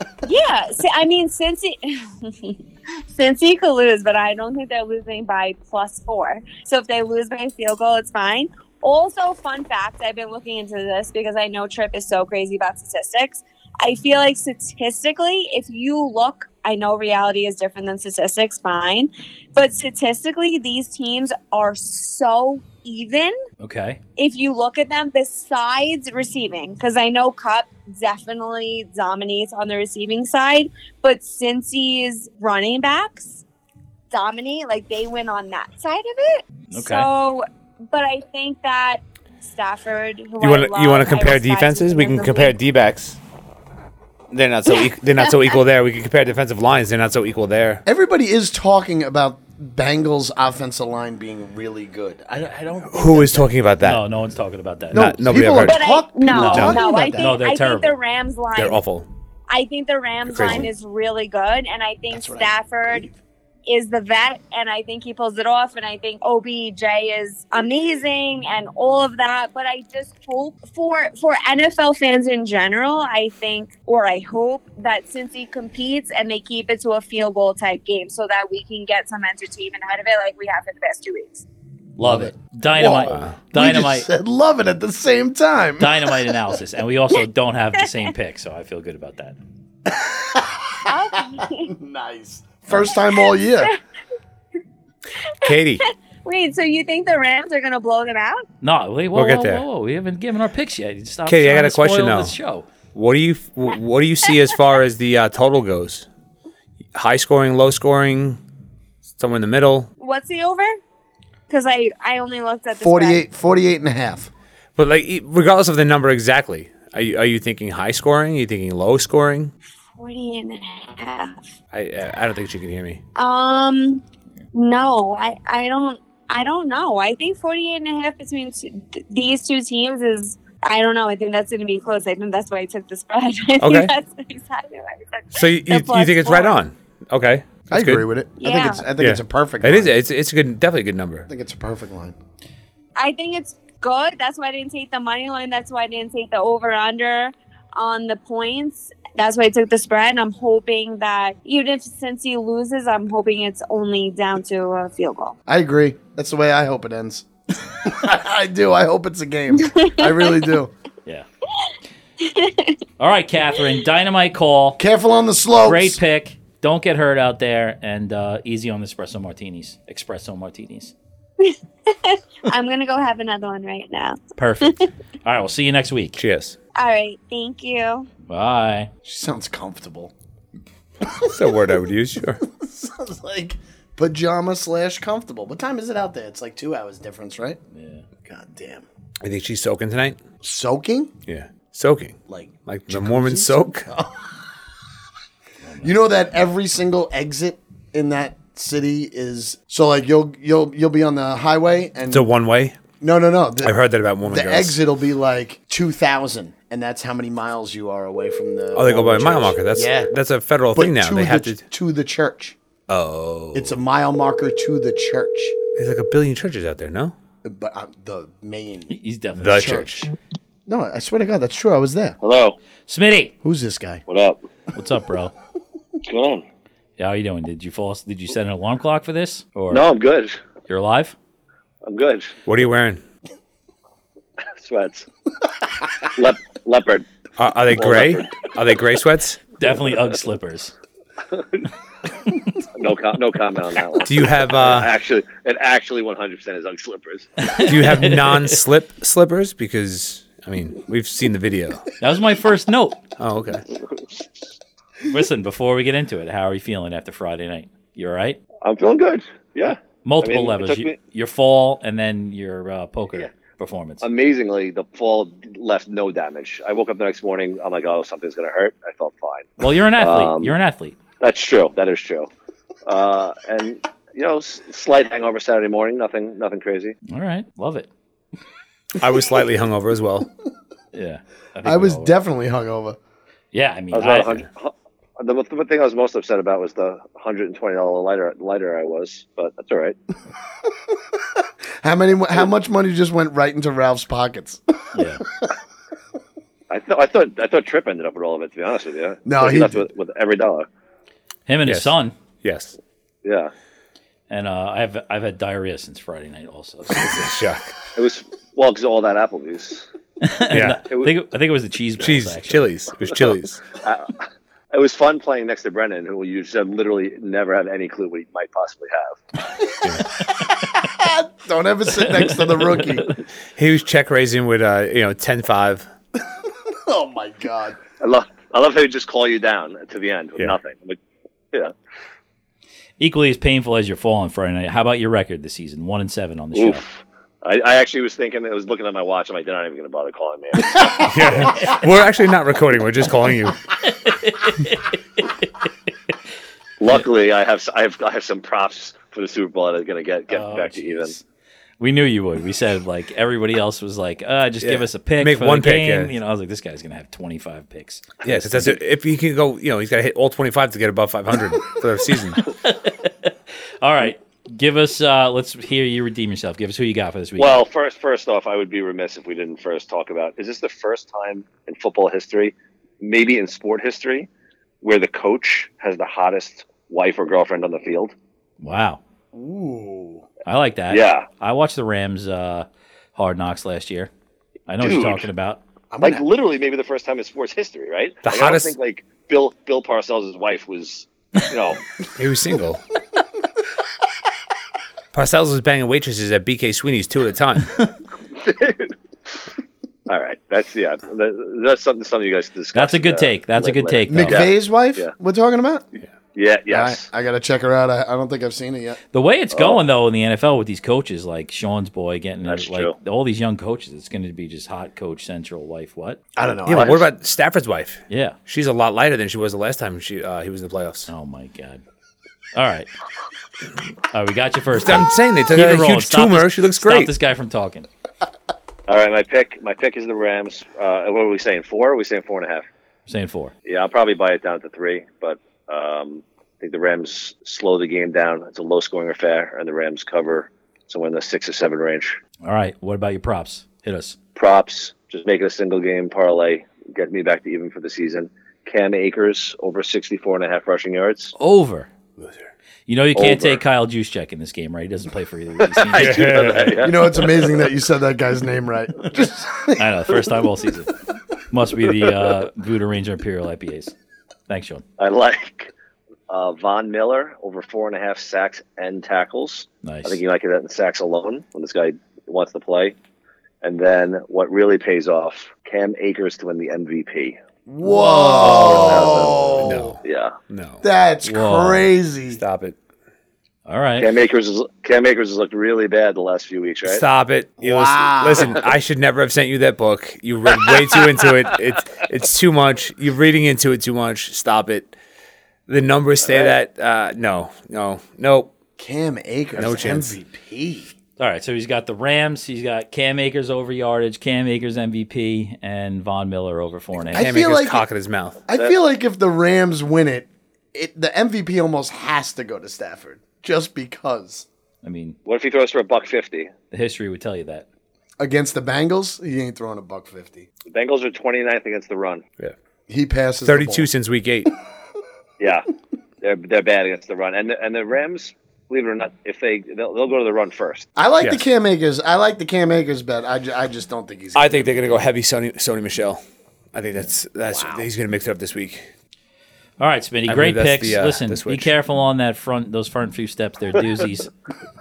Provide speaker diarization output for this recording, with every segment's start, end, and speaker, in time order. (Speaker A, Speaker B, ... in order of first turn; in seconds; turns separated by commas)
Speaker A: 0.2-23.4, Speaker B: 23.6-24.0, Speaker A: 24.2-33.4, Speaker A: 34.1-42.5, Speaker B: 36.7-37.1, Speaker C: 40.4-43.2, Speaker C: 44.3-47.8, Speaker D: 47.9-53.5, Speaker C: 52.9-54.0, Speaker B: 53.8-55.1, Speaker C: 54.9-55.9, Speaker D: 54.9-57.4, Speaker A: 55.6-58.8, Speaker B: 56.3-58.0, Speaker C: 56.5-56.8, Speaker C: 58.5-59.1, Speaker A: 59.5-63.1, Speaker C: 60.3-60.7, Speaker D: 60.4-60.7, Speaker D: 62.1-63.1, Speaker A: 63.7-81.5, Speaker B: 82.0-84.1, Speaker D: 82.0-86.4, Speaker C: 83.0-83.3, Speaker B: 85.8-89.4, Speaker D: 89.9-93.8, Speaker A: 90.9-91.7, Speaker C: 95.4-95.8, Speaker A: 96.2-98.5, Speaker B: 98.6-102.7, Speaker C: 99.1-99.6, Speaker C: 101.3-102.4, Speaker C: 102.9-106.1, Speaker C: 107.0-108.4, Speaker C: 109.2-109.9, Speaker A: 110.0-110.8, Speaker A: 111.5-113.2, Speaker D: 112.8-114.3, Speaker C: 114.8-119.5, Speaker A: 120.0-121.4, Speaker C: 121.7-123.0, Speaker A: 123.2-136.6, Speaker C: 133.6-133.9, Speaker C: 135.3-138.1, Speaker D: 137.7-140.0, Speaker A: 138.4-138.8, Speaker C: 139.0-141.3, Speaker D: 141.3-142.2, Speaker A: 143.0-155.4, Speaker D: 155.5-160.7, Speaker A: 159.6-160.5, Speaker A: 162.2-162.8, Speaker B: 163.0-164.8, Speaker D: 164.8-166.0, Speaker B: 165.6-170.9, Speaker A: 171.4-174.9, Speaker B: 174.4-176.2, Speaker C: 176.2-176.6, Speaker A: 176.8-178.1, Speaker B: 178.3-178.9, Speaker D: 179.1-180.1, Speaker D: 181.0-181.6, Speaker C: 181.2-182.4, Speaker D: 182.4-187.6, Speaker B: 187.7-188.1, Speaker D: 188.2-188.9, Speaker C: 189.2-190.2, Speaker D: 190.4-191.1, Speaker C: 191.3-193.9, Speaker D: 192.3-194.4, Speaker B: 195.7-195.9, Speaker D: 195.8-202.3, Speaker C: 202.1-202.8, Speaker D: 203.0-210.1, Speaker C: 203.6-204.8, Speaker C: 208.7-211.6, Speaker D: 210.7-212.6, Speaker C: 212.9-213.8, Speaker D: 213.5-215.6, Speaker C: 215.8-217.1, Speaker D: 217.4-219.0, Speaker B: 218.9-219.8, Speaker C: 219.4-220.1, Speaker D: 219.5-220.1, Speaker D: 220.7-222.2, Speaker E: 222.2-222.6, Speaker B: 222.9-223.3, Speaker D: 223.4-224.0, Speaker E: 224.1-224.4, Speaker B: 224.7-225.3, Speaker E: 226.1-226.4, Speaker B: 227.0-229.8, Speaker E: 229.7-230.4, Speaker B: 230.7-231.2, Speaker E: 231.8-232.3, Speaker C: 232.5-233.0, Speaker E: 234.6-235.1, Speaker E: 236.0-237.1, Speaker C: 237.4-239.4, Speaker E: 237.7-238.5, Speaker B: 239.6-240.7, Speaker E: 241.3-241.6, Speaker E: 242.7-247.3, Speaker C: 244.0-244.9, Speaker B: 247.4-248.6, Speaker C: 247.6-251.9, Speaker B: 252.0-253.0, Speaker C: 253.2-253.6, Speaker B: 255.1-258.4, Speaker E: 258.6-261.0, Speaker B: 260.0-264.0, Speaker E: 264.0-270.6, Speaker B: 269.6-271.0, Speaker E: 271.2-272.3, Speaker E: 272.9-277.0, Speaker B: 277.1-277.9, Speaker C: 279.0-280.3, Speaker B: 280.9-282.1, Speaker D: 281.6-283.0, Speaker B: 283.5-284.4, Speaker E: 283.9-290.0, Speaker D: 291.8-295.0, Speaker B: 294.9-295.2, Speaker E: 296.7-300.7, Speaker D: 299.2-299.9, Speaker B: 301.5-302.1, Speaker C: 301.7-302.8, Speaker E: 303.2-303.5, Speaker B: 304.3-307.3, Speaker C: 306.9-307.7, Speaker E: 308.0-309.9, Speaker B: 310.2-312.7, Speaker C: 310.5-310.8, Speaker E: 310.9-311.1, Speaker C: 312.0-313.6, Speaker E: 313.8-314.1, Speaker E: 314.7-319.2, Speaker D: 320.2-323.1, Speaker B: 322.0-322.9, Speaker C: 323.6-325.9, Speaker D: 326.6-327.8, Speaker E: 328.0-331.0, Speaker B: 333.0-336.8, Speaker E: 336.6-341.6, Speaker C: 340.8-343.7, Speaker B: 343.7-345.9, Speaker E: 346.8-351.1, Speaker B: 350.3-351.2, Speaker B: 351.8-358.7, Speaker C: 354.6-356.1, Speaker C: 358.2-362.4, Speaker B: 362.4-367.6, Speaker E: 367.4-374.3, Speaker E: 374.8-378.1, Speaker B: 378.6-379.0, Speaker D: 379.3-380.3, Speaker B: 380.5-384.1, Speaker E: 380.9-381.3, Speaker B: 384.7-385.6, Speaker E: 384.8-385.3, Speaker D: 385.9-386.2, Speaker E: 386.0-391.8, Speaker C: 388.2-388.7, Speaker C: 392.1-392.8, Speaker C: 395.1-397.9, Speaker E: 398.3-398.9, Speaker E: 400.1-405.1, Speaker B: 402.7-404.4, Speaker D: 404.1-405.9, Speaker E: 406.4-407.1, Speaker D: 406.7-409.0, Speaker B: 409.1-416.2, Speaker E: 409.5-409.8, Speaker E: 412.5-412.9, Speaker D: 416.4-417.1, Speaker C: 416.7-421.1, Speaker E: 416.7-417.0, Speaker B: 418.1-418.4, Speaker B: 421.1-421.8, Speaker B: 422.6-422.9, Speaker B: 424.1-427.9, Speaker C: 424.8-427.1, Speaker E: 428.9-432.6, Speaker B: 433.1-433.5, Speaker E: 433.7-442.2, Speaker B: 442.4-444.2, Speaker E: 444.4-451.3, Speaker B: 451.4-451.9, Speaker B: 452.9-456.3, Speaker E: 453.2-453.6, Speaker E: 455.6-457.6, Speaker C: 456.0-456.9, Speaker D: 456.8-459.8, Speaker B: 459.8-460.9, Speaker B: 461.5-463.9, Speaker B: 464.5-464.9, Speaker E: 465.0-465.7, Speaker E: 466.3-472.9, Speaker B: 469.8-470.2, Speaker E: 473.6-477.4, Speaker D: 477.7-480.0, Speaker E: 478.2-480.4, Speaker B: 478.4-479.1, Speaker C: 479.6-480.8, Speaker D: 480.8-482.4, Speaker B: 481.2-481.9, Speaker C: 482.3-482.8, Speaker B: 483.7-484.1, Speaker E: 484.0-487.0, Speaker C: 486.9-494.9, Speaker D: 487.6-488.7, Speaker C: 495.7-498.5, Speaker E: 496.2-496.6, Speaker D: 498.8-500.9, Speaker C: 499.6-500.2, Speaker B: 501.2-507.4, Speaker D: 507.1-507.9, Speaker C: 507.1-508.4, Speaker D: 508.5-514.5, Speaker B: 514.8-515.2, Speaker E: 515.2-516.5, Speaker B: 516.7-517.7, Speaker D: 518.2-520.5, Speaker E: 520.7-522.2, Speaker D: 522.9-523.9, Speaker C: 523.5-524.5, Speaker E: 525.4-525.7, Speaker E: 526.2-530.9, Speaker D: 531.0-535.0, Speaker C: 534.4-536.2, Speaker C: 536.7-538.9, Speaker B: 539.8-544.3, Speaker C: 540.3-541.7